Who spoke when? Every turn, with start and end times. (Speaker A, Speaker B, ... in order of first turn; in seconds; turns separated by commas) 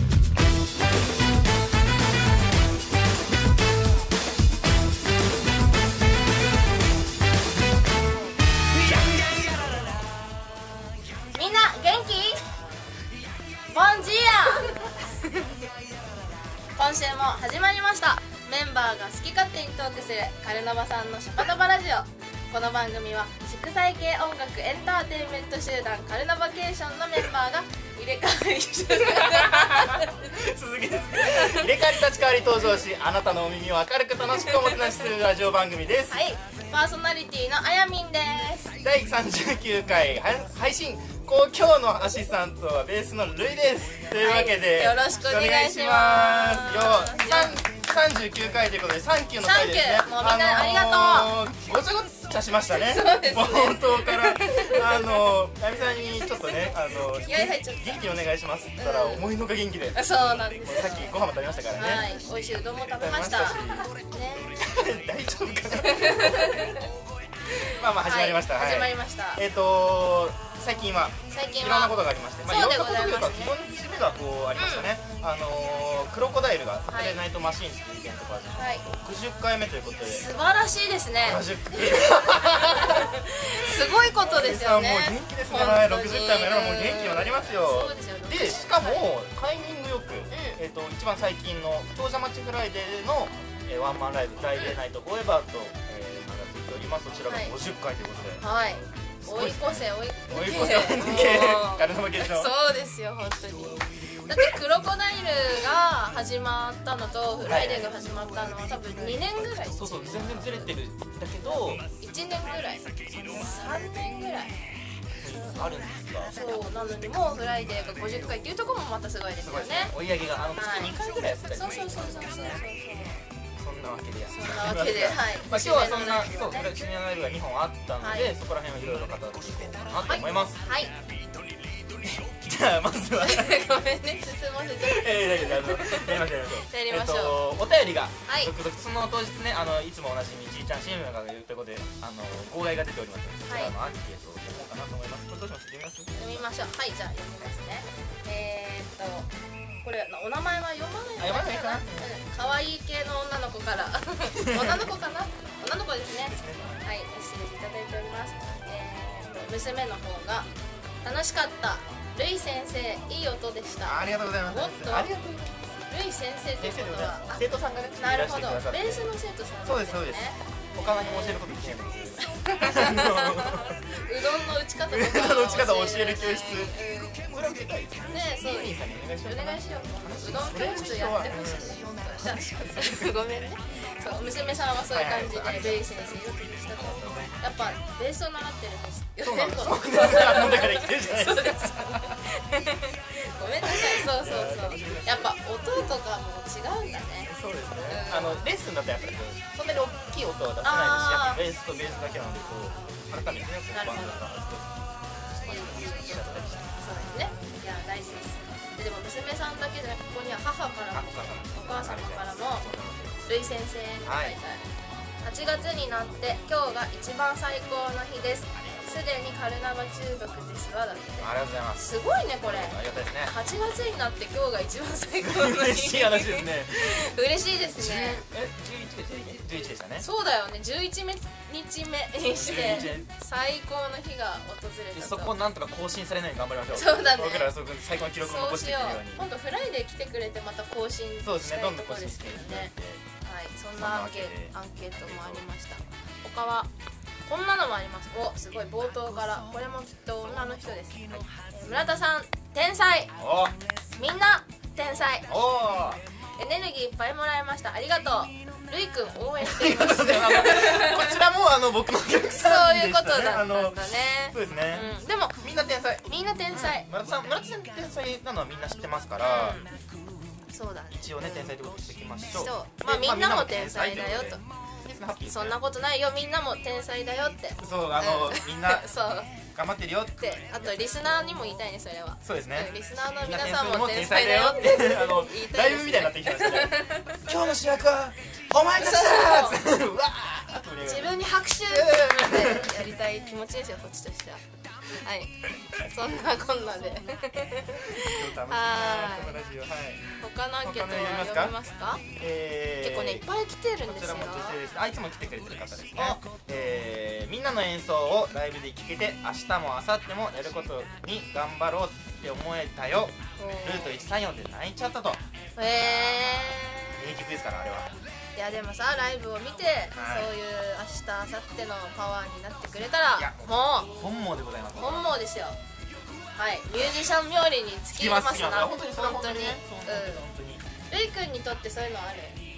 Speaker A: 11.3-12.4, Speaker A: 13.7-14.9, Speaker A: 16.7-30.3, Speaker B: 29.0-36.2, Speaker A: 31.2-31.8, Speaker A: 36.1-38.7, Speaker B: 38.8-60.0, Speaker A: 44.2-47.6, Speaker A: 49.4-51.3, Speaker A: 52.7-55.0, Speaker A: 57.2-58.1, Speaker A: 58.8-59.3, Speaker A: 59.9-61.1, Speaker B: 60.6-62.2, Speaker A: 61.8-64.5, Speaker B: 62.9-63.9, Speaker B: 64.5-66.7, Speaker A: 65.9-66.8, Speaker B: 67.7-80.3, Speaker A: 68.0-69.4, Speaker A: 71.3-73.5, Speaker A: 74.5-74.9, Speaker A: 76.9-77.2, Speaker A: 78.5-78.8, Speaker A: 80.0-81.4, Speaker B: 81.2-98.4, Speaker A: 82.4-89.1, Speaker A: 90.3-90.6, Speaker A: 97.3-97.5, Speaker A: 98.4-110.7, Speaker B: 99.2-102.5, Speaker B: 107.5-108.0, Speaker B: 109.7-111.8, Speaker A: 111.9-114.6, Speaker B: 115.2-116.7, Speaker A: 116.3-119.9, Speaker B: 119.4-122.6, Speaker A: 120.5-121.0, Speaker A: 121.5-123.2, Speaker B: 123.6-130.6, Speaker A: 124.3-126.7, Speaker A: 128.0-128.3, Speaker A: 130.0-130.9, Speaker B: 132.0-133.6, Speaker A: 133.2-137.5, Speaker B: 134.8-146.5, Speaker A: 138.2-138.5, Speaker A: 143.4-143.7, Speaker A: 146.2-149.3, Speaker A: 149.8-160.5, Speaker B: 151.2-152.1, Speaker B: 154.4-154.8, Speaker B: 156.2-156.8, Speaker A: 161.0-165.1, Speaker B: 163.8-165.8, Speaker A: 165.8-167.4, Speaker B: 166.6-169.1, Speaker A: 168.0-171.4, Speaker B: 169.6-173.8, Speaker A: 172.3-177.3, Speaker B: 174.9-183.2, Speaker A: 178.1-197.3, Speaker B: 184.9-186.2, Speaker B: 186.8-187.4, Speaker B: 189.2-192.2, Speaker B: 193.7-195.3, Speaker B: 197.2-204.7, Speaker A: 197.9-198.5, Speaker A: 200.6-201.4, Speaker A: 203.7-204.2, Speaker B: 205.3-207.3, Speaker A: 205.4-212.7, Speaker B: 210.9-213.3, Speaker A: 213.3-214.7, Speaker B: 214.0-214.3, Speaker A: 215.2-228.2, Speaker B: 221.2-223.3, Speaker B: 225.2-226.9, Speaker B: 227.7-230.0, Speaker A: 230.0-235.3, Speaker B: 232.2-233.1, Speaker B: 234.9-239.3, Speaker A: 236.7-237.5, Speaker A: 238.2-246.7, Speaker B: 241.2-243.0, Speaker B: 243.8-245.4, Speaker A: 247.2-253.1, Speaker B: 253.2-253.6, Speaker A: 253.9-255.3, Speaker B: 255.3-256.0, Speaker A: 256.4-261.2, Speaker B: 259.4-269.6, Speaker A: 262.3-266.9, Speaker A: 269.2-269.7, Speaker A: 270.5-271.5, Speaker B: 270.9-275.6, Speaker A: 272.3-274.4, Speaker A: 275.3-279.3, Speaker B: 277.6-278.9, Speaker B: 279.5-280.9, Speaker A: 280.2-287.2, Speaker B: 282.2-292.8, Speaker A: 288.7-289.6, Speaker A: 290.8-299.4, Speaker B: 297.9-300.1, Speaker A: 300.2-302.0, Speaker B: 300.6-301.6, Speaker B: 302.1-303.2, Speaker A: 302.8-304.6, Speaker B: 303.8-317.9, Speaker A: 305.9-306.2, Speaker A: 313.4-314.0, Speaker A: 315.6-317.0, Speaker A: 318.3-323.9, Speaker B: 319.9-320.3, Speaker B: 323.1-325.2, Speaker A: 324.7-325.6, Speaker A: 326.3-330.2, Speaker B: 327.9-330.6, Speaker A: 330.9-332.4